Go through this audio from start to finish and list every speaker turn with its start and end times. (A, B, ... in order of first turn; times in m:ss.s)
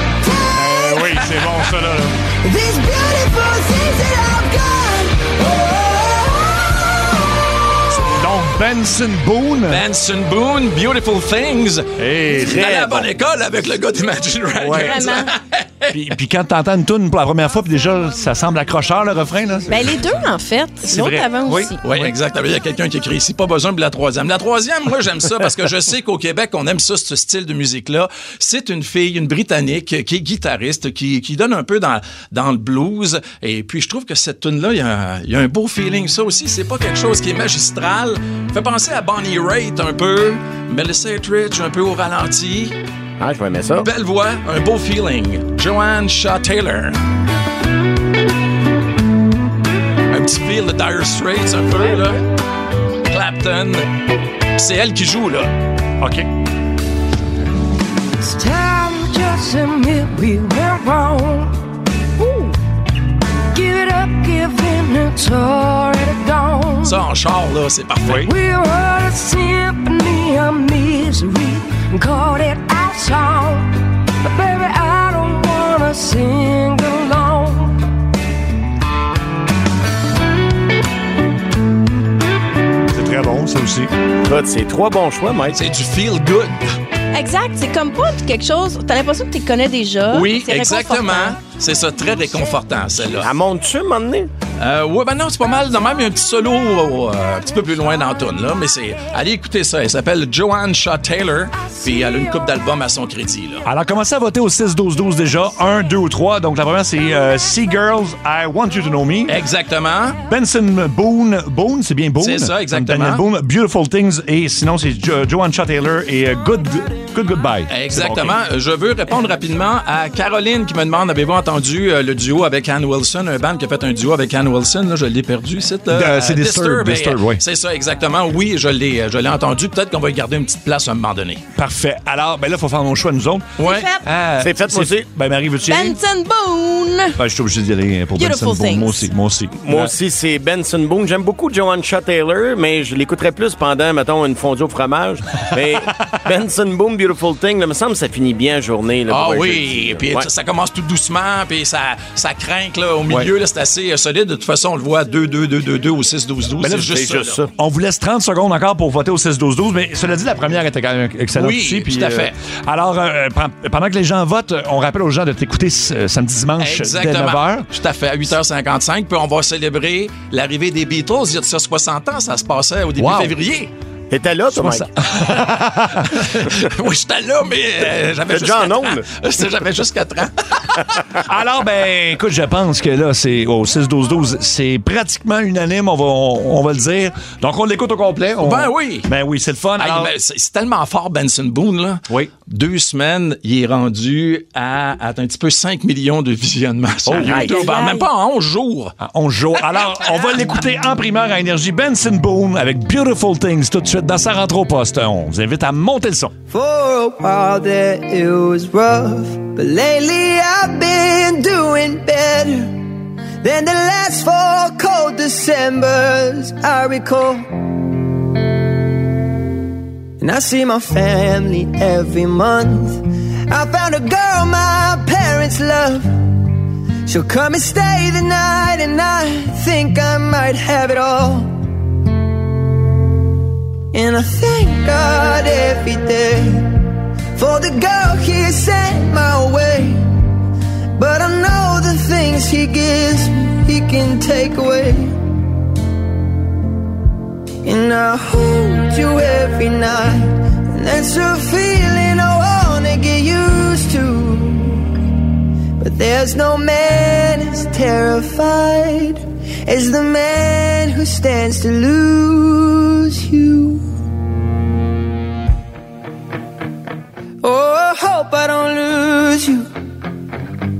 0:00.2-0:01.2 A
0:00.5-0:02.2 B
0:02.4-0:06.8 A
0:08.0-0:09.8 B
0:09.7-0:16.0 C
0:12.0-0:13.0 B
0:14.6-0:15.1 B
0:14.8-0:15.3 D
0:15.9-0:20.1 B
0:19.7-0:21.8 D
0:20.9-0:22.2 B
0:21.8-0:42.8 C
0:43.2-0:43.9 E
0:43.8-0:47.0 C
0:50.1-0:52.2 C
0:53.1-0:53.9 C
0:54.6-0:55.5 C
0:56.0-0:56.3 B
0:58.2-1:01.6 F
1:02.2-1:02.5 F
1:03.5-1:07.0 F
1:06.8-1:08.3 C
1:08.1-1:08.3 B
1:08.3-1:17.8 F
1:22.9-1:23.9 B
1:24.2-1:25.6 E
1:25.5-1:26.6 C
1:27.1-1:31.4 D
1:30.1-1:33.4 C
1:33.2-1:34.3 E
1:34.6-1:43.7 C
1:43.6-1:49.4 B
1:49.3-1:50.2 C
1:50.2-1:58.4 B
1:52.2-1:53.2 C
1:57.7-2:11.4 C
2:05.9-2:07.4 B
2:11.6-2:13.5 B
2:13.6-2:13.9 C
2:13.6-2:14.0 D
2:14.0-2:16.0 B
2:14.4-2:15.1 E
2:15.7-2:17.2 D
2:17.2-2:19.9 B
2:18.2-2:19.1 D
2:19.6-2:30.3 E
2:29.1-2:37.4 C
2:36.6-2:47.7 B
2:41.4-2:42.4 C
2:46.6-2:53.7 C
2:53.0-2:53.4 B
2:54.1-2:54.9 E
2:54.5-2:56.4 B
2:56.1-3:01.2 C
2:58.3-2:59.1 E
3:01.2-3:10.1 B
3:08.4-3:09.1 C
3:09.8-3:18.9 C
3:17.1-3:17.8 B
3:17.2-3:18.1 D
3:19.0-3:26.3 B
3:26.5-3:32.7 A
3:33.4-3:37.5 A
3:40.2-3:46.1 A
3:47.1-3:51.5 A
3:53.9-3:56.8 A
3:57.3-4:00.0 A
4:01.0-4:05.2 A
4:07.6-4:14.9 A
4:15.8-4:23.8 A
4:27.4-4:29.7 A